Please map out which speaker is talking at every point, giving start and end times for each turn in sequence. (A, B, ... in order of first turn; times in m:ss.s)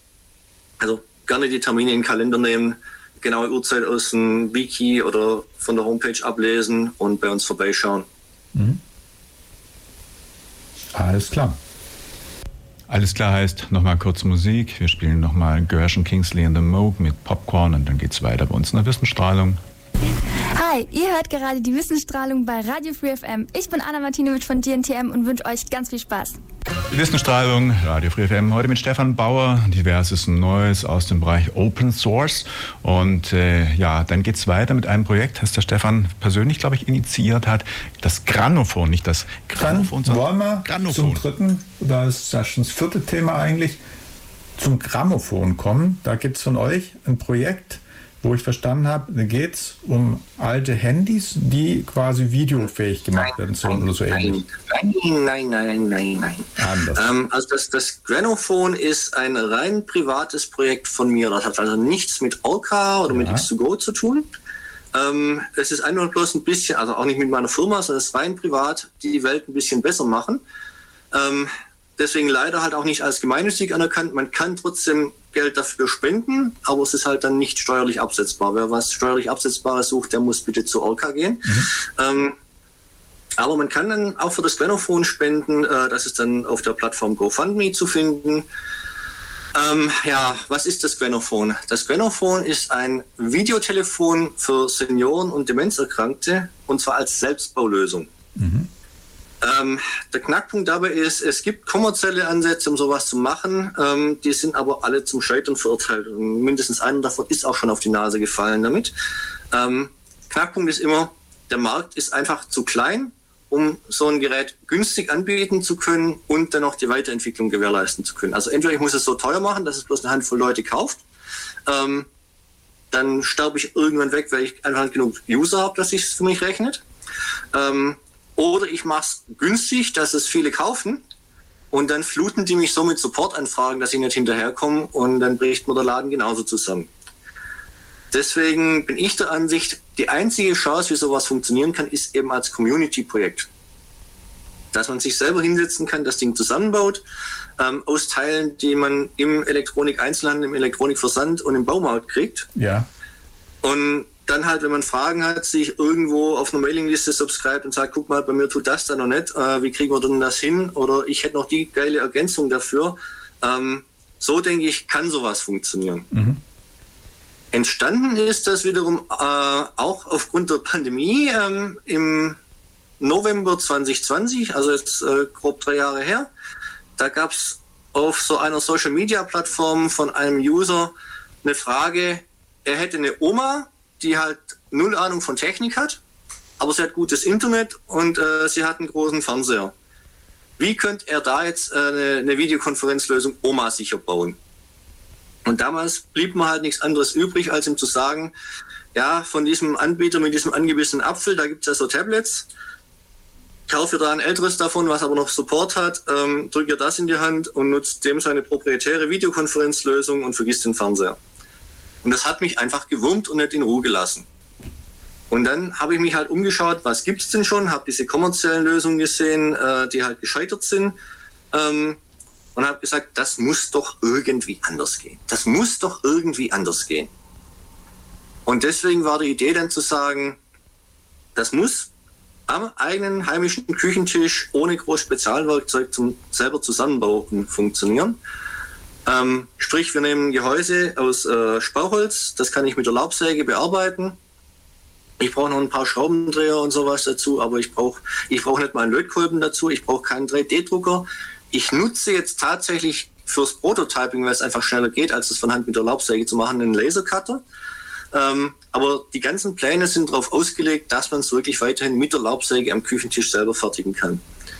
0:00.8-0:08.1 A
0:08.5-0:08.8 B
0:10.9-0:11.6 B
0:12.9-0:19.6 C
0:20.5-0:26.4 D
0:26.9-0:41.2 C
0:39.6-0:43.8 B
0:44.6-0:54.4 B
0:53.2-1:04.3 A
0:56.6-0:57.1 B
1:03.1-1:03.5 B
1:04.9-1:10.4 A
1:11.1-1:22.3 A
1:23.4-1:28.4 A
1:29.5-1:38.1 A
1:38.4-1:38.7 B
1:39.4-1:48.9 A
1:49.5-2:01.0 A
2:01.6-2:02.1 A
2:02.9-2:06.8 A
2:07.5-2:11.0 A
2:11.7-2:16.9 A
2:18.1-2:23.5 A
2:24.7-2:27.0 A
2:27.6-2:32.5 A
2:32.6-2:32.9 B
2:33.6-2:46.1 A
2:46.1-2:46.4 B
2:47.5-2:52.4 A
2:53.0-2:56.3 A
2:57.0-3:06.0 A
3:06.6-3:09.7 A
3:10.6-3:14.4 A
3:15.4-3:18.3 A
3:18.9-3:22.5 A
3:23.7-3:31.2 A
3:32.0-3:34.2 A
3:35.3-3:41.0 A
3:41.5-3:42.0 A
3:42.5-3:47.1 A
3:48.4-3:50.4 A
3:51.4-3:51.9 A
3:52.5-3:58.2 A
3:59.0-4:04.2 A
4:05.2-4:17.4 A
4:18.1-4:24.2 A